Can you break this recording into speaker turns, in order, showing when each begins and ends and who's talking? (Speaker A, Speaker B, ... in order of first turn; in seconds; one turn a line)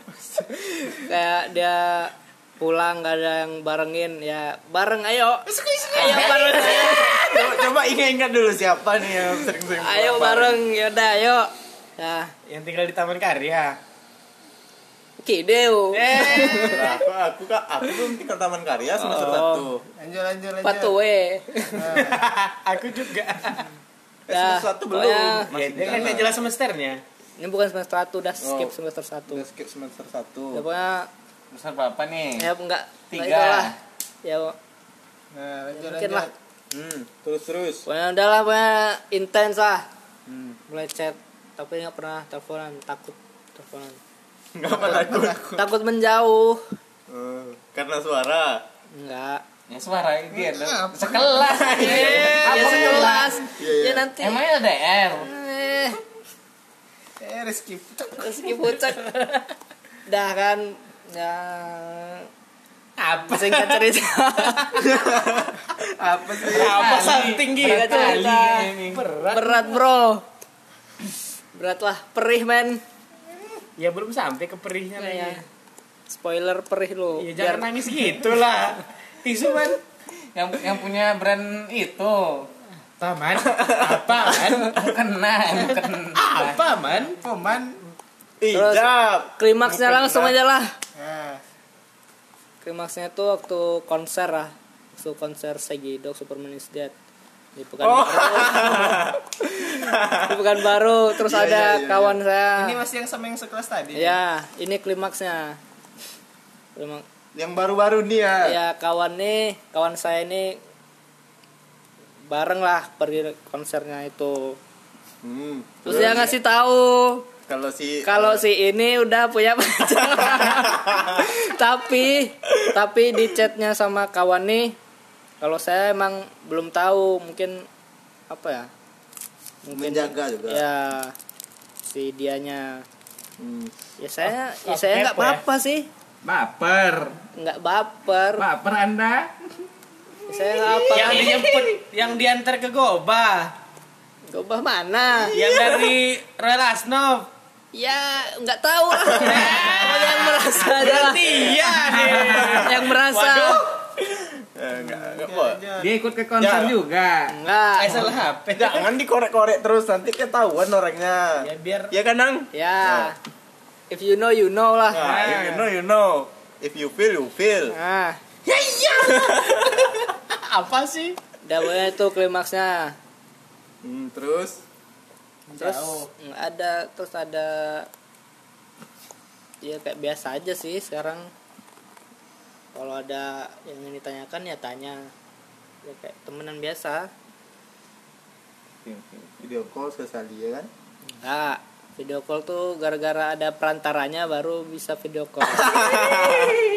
Speaker A: 0.8-7.6
Speaker B: 5.5-6.5
Speaker C: 5.9-7.2
Speaker D: 6.0-10.6
Speaker A: 9.8-12.3
Speaker C: 12.4-13.8
Speaker A: 15.2-16.9
Speaker C: 15.9-16.9
Speaker D: 16.5-19.8
Speaker A: 19.0-19.7
Speaker B: 19.9-20.9
Speaker A: 20.6-21.8
Speaker B: 21.7-22.2
Speaker C: 21.9-23.7
Speaker D: 24.3-26.4
Speaker A: 24.3-25.5
Speaker C: 25.5-27.0
Speaker A: 27.4-29.4
Speaker D: 28.4-28.7
Speaker D: 29.3-30.6
Speaker A: 30.5-31.1
Speaker E: 31.5-32.5
Speaker A: 32.4-34.5
Speaker E: 33.1-33.7
Speaker B: 35.3-36.3
Speaker A: 35.7-36.3
Speaker D: 36.7-37.9
Speaker A: 37.9-39.9
Speaker D: 40.3-40.5
Speaker A: 40.7-44.0
Speaker D: 44.5-45.5
Speaker B: 44.9-45.5
Speaker A: 45.5-46.7
Speaker D: 47.1-48.6
Speaker A: 48.9-49.4
Speaker E: 49.7-53.4
Speaker B: 50.3-51.4
Speaker D: 51.4-54.1
Speaker C: 51.8-52.8
Speaker A: 51.8-54.4
Speaker B: 52.1-52.4
Speaker E: 54.2-55.3
Speaker A: 55.1-56.0
Speaker B: 57.2-58.6
Speaker A: 58.2-59.1
Speaker C: 59.0-59.4
Speaker A: 60.0-62.3
Speaker C: 63.0-63.9
Speaker A: 63.3-64.8
Speaker C: 64.4-64.9
Speaker D: 64.9-66.8
Speaker C: 66.4-69.8
Speaker E: 66.5-69.0
Speaker A: 67.6-68.7
Speaker A: 69.3-70.2
Speaker A: 71.5-72.8
Speaker C: 73.8-75.4
Speaker A: 75.0-75.4
Speaker A: 76.1-77.7
Speaker C: 77.2-79.8
Speaker E: 80.3-82.5
Speaker C: 83.0-84.9
Speaker E: 84.6-86.6
Speaker C: 85.5-87.2
Speaker B: 87.1-87.8
Speaker D: 88.4-89.4
Speaker A: 88.5-90.8
Speaker B: 90.9-91.4
Speaker A: 92.6-96.9
Speaker A: 97.5-99.1
Speaker D: 97.8-100.5
Speaker A: 99.9-102.8
Speaker D: 101.1-102.2
Speaker B: 102.5-104.2
Speaker A: 103.9-105.6
Speaker A: 106.8-107.0
Speaker D: 107.3-108.5
Speaker A: 108.4-110.6
Speaker A: 112.3-114.6
Speaker D: 115.2-116.3
Speaker A: 115.8-117.3
Speaker D: 117.5-118.4
Speaker A: 118.0-124.8
Speaker D: 120.2-121.2
Speaker A: 125.4-127.7
Speaker A: 128.3-128.7
Speaker A: 129.6-131.1
Speaker D: 129.7-130.6
Speaker A: 131.8-132.8
Speaker D: 133.4-133.7
Speaker A: 134.0-135.9
Speaker C: 134.6-135.4
Speaker E: 136.2-137.2
Speaker A: 137.3-138.4
Speaker E: 138.4-139.3
Speaker A: 140.3-141.4
Speaker C: 140.9-143.5
Speaker A: 144.3-145.3
Speaker C: 145.3-147.3
Speaker D: 145.4-145.9
Speaker A: 147.7-153.6
Speaker C: 149.1-153.8
Speaker D: 154.2-155.6
Speaker B: 155.0-155.9
Speaker E: 155.8-157.3
Speaker D: 156.4-156.8
Speaker A: 157.3-158.1
Speaker C: 157.8-158.9
Speaker D: 158.5-163.1
Speaker C: 161.4-161.9
Speaker A: 162.5-163.2
Speaker A: 163.9-165.1
Speaker D: 164.9-167.8
Speaker C: 164.9-165.7
Speaker A: 167.7-168.2
Speaker C: 168.4-171.2
Speaker D: 169.0-169.8
Speaker A: 171.4-172.9
Speaker D: 173.8-174.6
Speaker A: 175.5-177.9
Speaker C: 175.6-175.9
Speaker A: 179.6-181.3
Speaker A: 182.7-185.1
Speaker A: 185.8-187.1
Speaker E: 188.8-189.3
Speaker D: 189.4-190.7
Speaker A: 191.2-195.8
Speaker D: 195.5-196.6